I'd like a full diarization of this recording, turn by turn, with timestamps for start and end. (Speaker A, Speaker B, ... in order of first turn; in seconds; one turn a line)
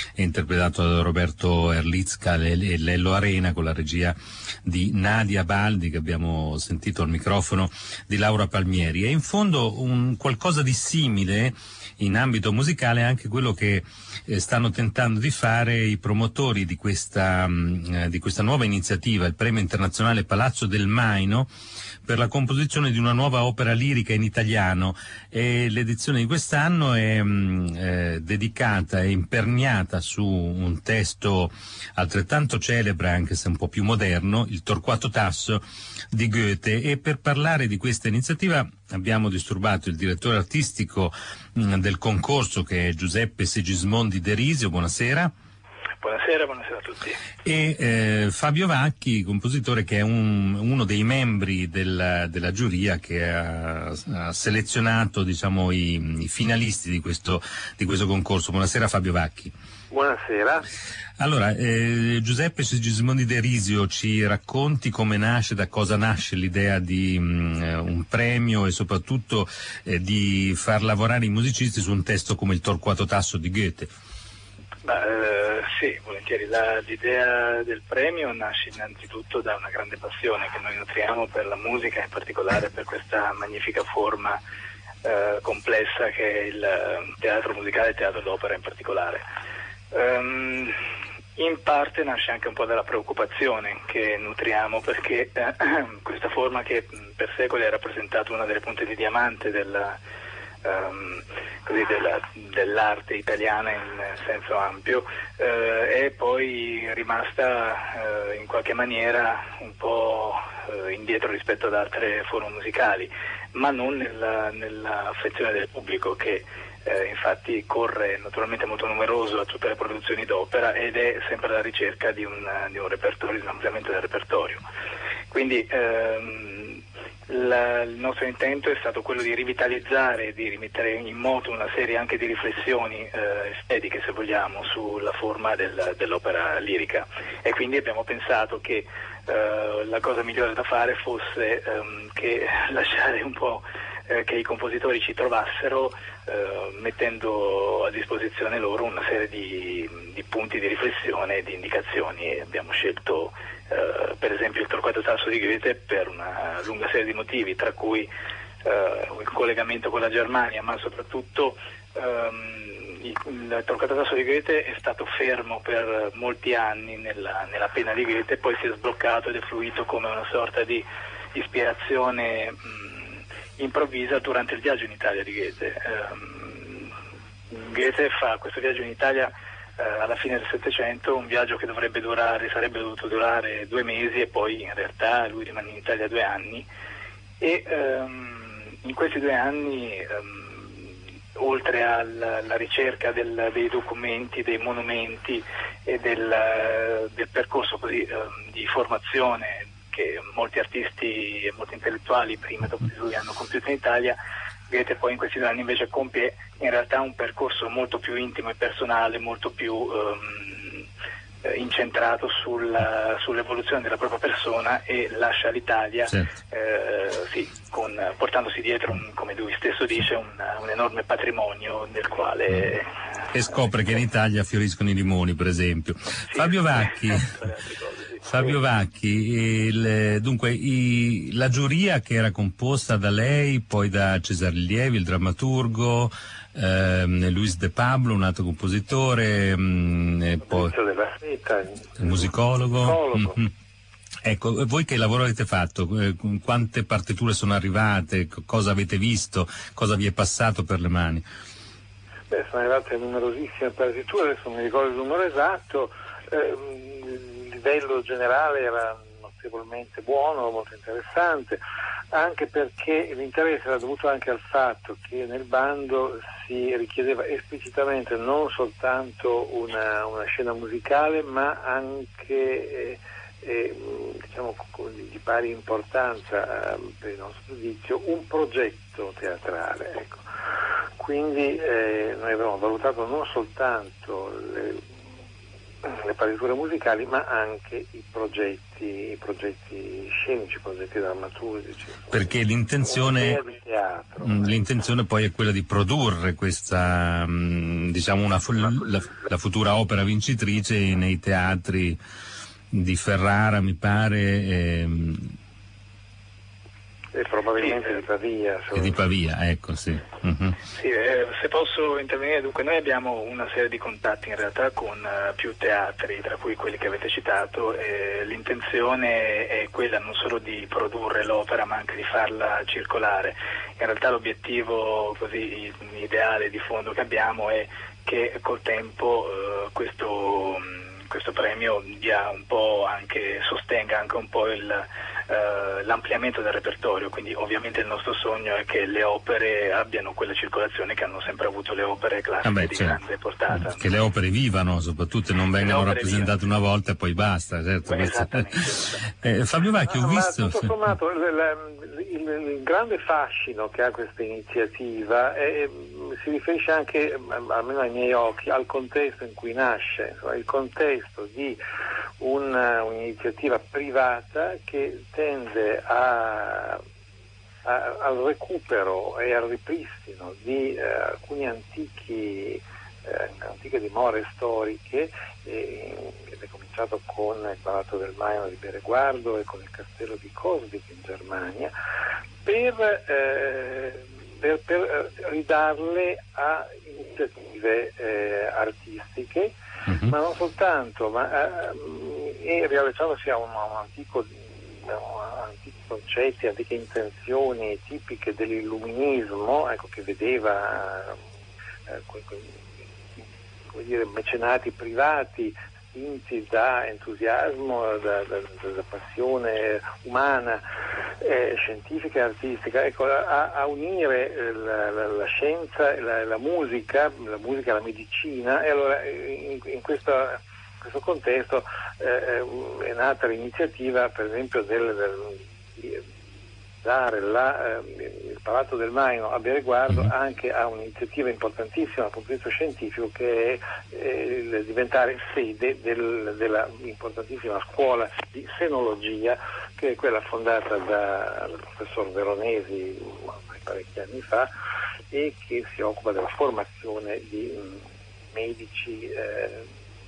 Speaker A: 0.2-21.5
Speaker A: 22.1-45.3
Speaker B: 46.0-47.2
Speaker A: 47.5-59.5
Speaker C: 59.9-60.7
Speaker A: 61.2-73.9
Speaker B: 74.8-84.4
Speaker B: 85.0-89.2
Speaker B: 89.9-90.8
Speaker B: 91.4-100.0
Speaker B: 100.6-124.6
Speaker B: 125.3-158.1
Speaker B: 158.6-177.0
Speaker B: 177.5-186.7
Speaker B: 187.4-204.2
Speaker B: 204.7-210.9
Speaker B: 211.4-222.9
Speaker A: 223.3-227.4
Speaker B: 226.3-228.6
Speaker A: 228.3-240.7
Speaker C: 240.5-243.4
Speaker A: 242.0-243.5
Speaker A: 244.2-251.2
Speaker C: 252.3-261.6
Speaker C: 262.1-280.2
Speaker C: 281.0-284.8
Speaker C: 285.9-292.3
Speaker A: 292.1-293.4
Speaker C: 292.8-294.6
Speaker A: 294.2-302.0
Speaker A: 302.7-305.3
Speaker C: 307.1-309.0
Speaker B: 307.6-308.0
Speaker A: 308.8-310.6
Speaker B: 310.7-343.8
Speaker A: 342.4-343.0
Speaker A: 343.5-348.4
Speaker B: 345.6-346.3
Speaker B: 347.9-349.2
Speaker A: 349.2-350.7
Speaker C: 349.9-361.6
Speaker C: 362.2-366.8
Speaker C: 367.6-381.7
Speaker C: 382.4-401.2
Speaker A: 389.9-390.1
Speaker C: 401.9-402.7
Speaker C: 403.7-410.6
Speaker C: 411.2-426.0
Speaker C: 426.8-444.5
Speaker C: 445.1-449.7